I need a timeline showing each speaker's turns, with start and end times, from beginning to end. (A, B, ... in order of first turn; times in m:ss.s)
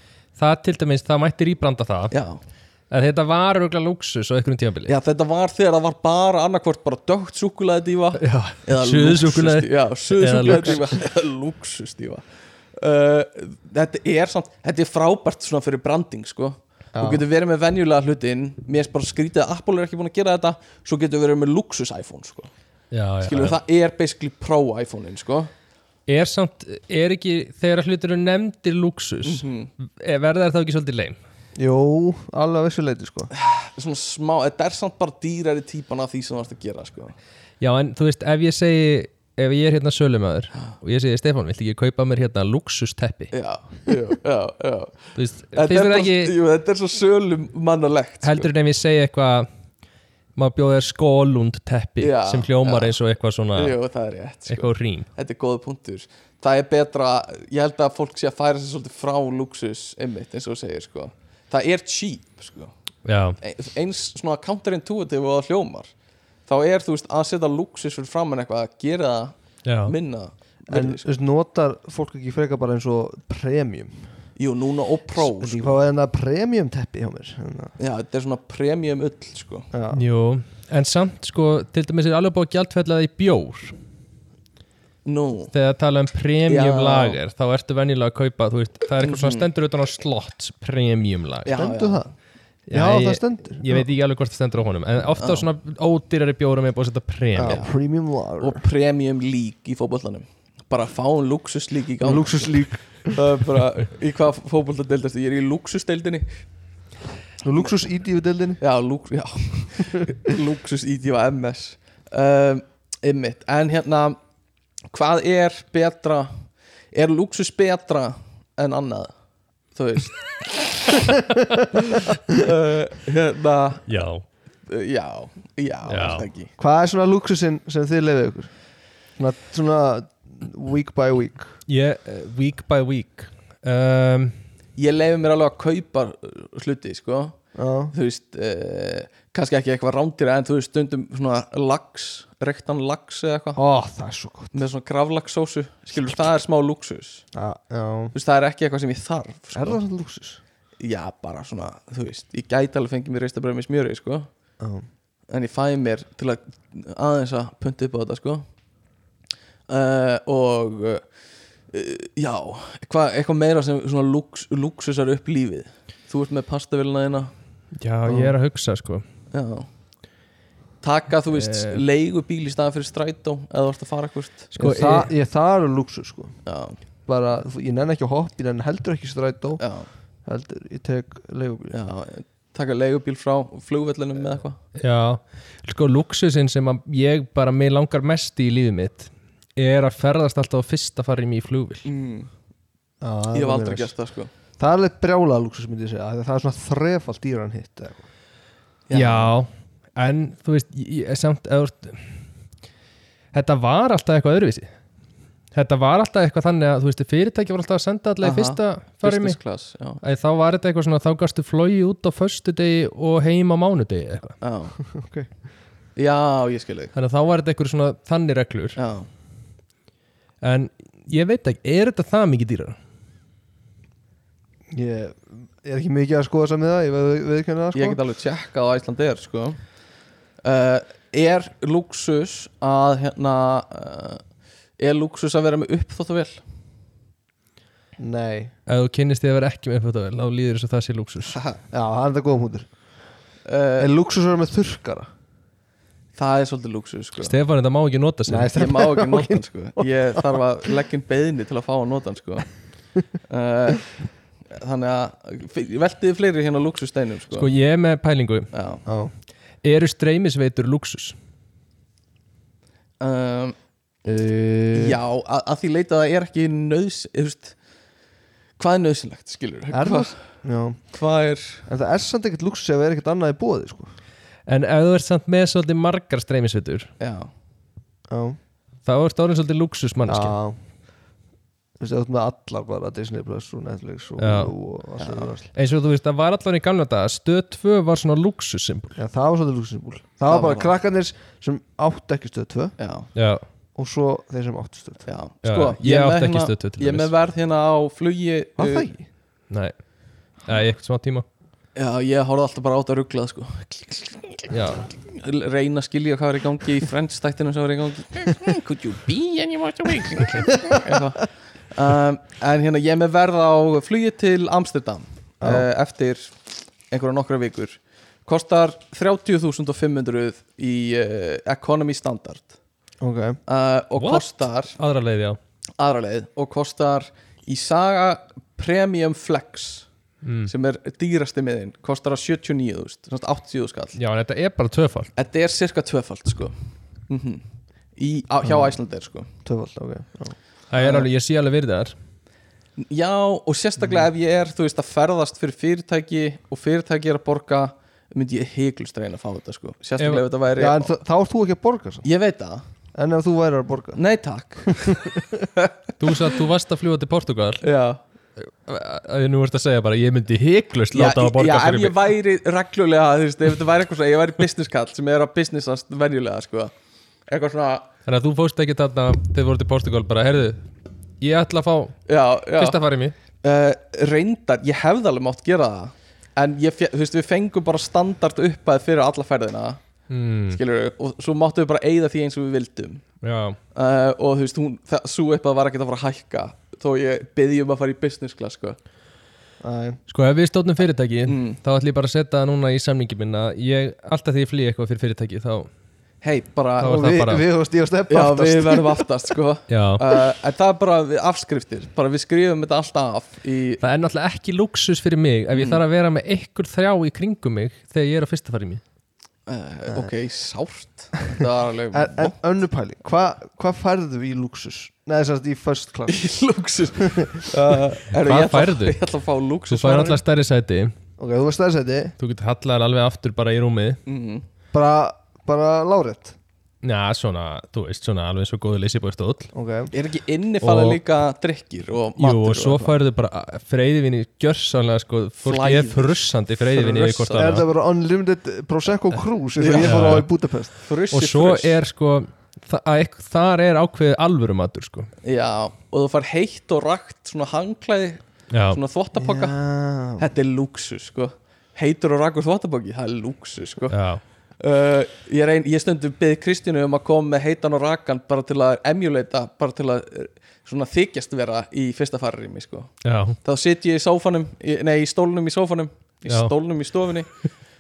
0:00.4-0:02.1 A
0:02.1-0:02.4 B
0:02.9-0:04.9 A
0:04.9-0:12.2 B
0:08.2-0:10.9 A
0:12.8-0:22.5 B
0:16.9-0:17.2 C
0:22.9-0:23.6 A
0:23.2-0:25.5 B
0:26.1-0:31.2 A
0:29.2-0:29.7 B
0:31.6-0:33.3 C
0:33.3-0:37.1 B
0:37.6-0:43.3 A
0:43.3-0:48.5 B
0:45.2-0:46.3 A
0:48.2-0:49.5 A
0:50.4-0:53.8 A
0:52.0-0:53.0 B
0:53.5-1:02.7 B
0:54.5-0:55.1 A
1:03.0-1:03.4 A
1:03.4-1:05.9 B
1:06.5-1:11.0 B
1:09.6-1:09.9 A
1:10.7-1:14.1 C
1:14.4-1:15.8 B
1:15.2-1:17.7 C
1:17.8-1:19.7 B
1:19.7-1:20.0 C
1:19.9-1:23.7 A
1:25.0-1:25.5 B
1:25.5-1:31.6 A
1:26.5-1:27.2 B
1:29.0-1:29.5 B
1:31.4-1:32.1 B
1:31.5-1:32.1 C
1:32.7-1:37.6 A
1:32.7-1:33.9 C
1:35.2-1:35.5 B
1:37.4-1:38.6 C
1:38.4-1:46.4 B
1:42.0-1:43.2 C
1:47.4-1:48.6 C
1:48.6-1:54.2 B
1:54.9-1:56.3 B
1:56.9-1:59.1 B
1:59.7-2:01.0 B
2:01.7-2:03.9 B
2:03.9-2:04.2 A
2:04.7-2:06.5 B
2:05.9-2:06.3 A
2:06.6-2:08.5 C
2:09.2-2:11.6 C
2:11.7-2:14.3 A
2:14.8-2:17.4 B
2:17.5-2:17.9 C
2:17.9-2:23.6 B
2:23.6-2:24.6 C
2:24.5-2:27.2 B
2:27.3-2:28.1 C
2:28.1-2:29.8 B
2:29.5-2:30.4 C
2:30.8-2:34.3 B
2:34.6-2:34.9 C
2:35.3-2:38.4 B
2:39.7-2:41.1 B
2:41.7-2:47.3 B
2:47.8-2:49.0 A
2:48.0-2:48.3 C
2:49.3-2:49.7 B
2:50.8-2:54.5 B
2:51.3-2:51.8 A
2:54.5-2:55.1 A
2:54.6-2:56.4 C
2:56.4-2:56.8 B
2:57.1-2:59.6 C
2:59.6-2:59.9 B
3:00.2-3:01.8 C
3:01.7-3:04.6 B
3:04.8-3:11.9 A
3:11.8-3:12.3 B
3:13.0-3:13.9 C
3:13.3-3:14.3 B
3:14.6-3:18.0 C
3:18.9-3:19.3 B
3:18.9-3:22.1 A
3:23.3-3:24.7 A
3:25.5-3:29.4 A
3:28.2-3:30.0 B
3:30.0-3:34.4 A
3:34.4-3:34.8 B
3:34.8-3:35.3 C
3:36.0-3:36.9 B
3:36.9-3:38.8 A
3:38.8-3:39.1 B
3:40.4-3:42.8 A
3:44.7-3:48.0 C
3:47.7-3:49.6 B
3:50.4-3:54.2 B
3:54.8-3:56.4 B
3:58.0-3:58.5 C
3:58.7-4:01.4 A
4:01.7-4:02.7 C
4:03.4-4:03.9 B
4:03.8-4:05.1 C
4:06.2-4:07.3 B
4:07.2-4:08.6 A
4:08.3-4:10.4 C
4:08.5-4:12.5 B
4:13.3-4:13.9 B
4:14.5-4:17.5 B
4:17.3-4:18.5 A
4:18.5-4:18.8 B
4:18.9-4:19.1 C
4:19.6-4:21.2 A
4:23.0-4:23.5 B
4:24.0-4:25.0 C
4:24.7-4:27.6 B
4:28.6-4:30.2 B
4:29.7-4:30.8 C
4:30.9-4:31.6 B
4:31.7-4:33.9 C
4:34.5-4:36.9 A
4:37.0-4:37.3 B
4:38.1-4:38.4 C
4:38.8-4:40.3 A
4:40.1-4:40.6 C
4:41.8-4:45.5 C
4:44.2-4:44.5 A
4:45.0-4:45.3 B
4:45.5-4:49.0 A
4:49.0-4:52.7 C
4:50.3-4:50.7 B
4:52.8-4:53.1 B
4:53.1-4:53.4 A
4:53.8-4:55.0 C
4:55.0-4:58.9 B
4:55.4-4:57.1 A
4:58.6-4:59.1 C
4:59.5-4:59.7 A
5:00.4-5:01.2 A
5:01.8-5:16.4 B
5:04.5-5:04.9 A
5:10.7-5:11.0 C
5:15.4-5:15.7 C
5:16.9-5:22.5 B
5:23.0-5:23.4 C
5:23.5-5:24.7 B
5:24.0-5:25.4 A
5:25.8-5:29.9 B
5:30.2-5:30.5 A
5:30.4-5:34.0 B
5:34.0-5:35.1 A
5:35.2-5:36.5 B
5:37.1-5:37.4 B
5:38.0-5:39.3 B
5:38.4-5:38.8 C
5:39.4-5:40.4 C
5:40.7-5:42.0 A
5:40.8-5:41.0 B
5:42.8-5:50.9 B
5:50.0-5:50.2 A
5:50.6-5:52.0 C
5:52.0-5:52.6 B
5:53.0-5:54.0 C
5:54.0-5:55.7 B
5:54.7-5:55.4 C
5:56.0-5:57.6 A
5:57.6-5:58.0 B
5:58.4-6:02.0 A
6:00.9-6:06.7 B
6:07.3-6:07.9 B
6:08.0-6:10.6 A
6:11.2-6:12.0 A
6:12.1-6:12.8 B
6:12.6-6:13.1 A
6:13.4-6:19.8 B
6:20.1-6:20.6 A
6:20.5-6:23.0 B
6:23.2-6:23.6 A
6:23.7-6:28.8 B
6:29.6-6:30.0 C
6:30.1-6:35.7 A
6:31.2-6:31.6 B
6:36.2-6:37.0 B
6:36.8-6:37.4 A
6:36.8-6:39.0 C
6:38.1-6:43.8 B
6:39.7-6:40.0 A
6:43.8-6:48.8 A
6:45.5-6:45.8 B
6:49.5-6:52.4 B
6:51.9-6:56.3 C
6:56.1-7:00.2 B
6:57.0-6:57.5 C
6:58.2-6:59.0 A
6:59.7-7:00.9 A
7:01.2-7:02.2 C
7:02.2-7:04.0 A
7:04.0-7:04.4 B
7:04.7-7:06.4 C
7:06.8-7:09.5 A
7:09.5-7:09.9 C
7:09.9-7:13.0 B
7:10.6-7:11.0 A
7:12.2-7:17.6 A
7:15.4-7:17.2 B
7:17.2-7:20.7 C
7:19.6-7:20.2 B
7:19.7-7:20.3 A
7:20.8-7:21.8 B
7:21.1-7:25.1 A
7:25.2-7:29.6 B
7:28.5-7:28.8 A
7:29.2-7:30.3 C
7:30.2-7:34.0 B
7:33.9-7:34.2 A
7:34.6-7:47.3 B
7:43.0-7:43.4 A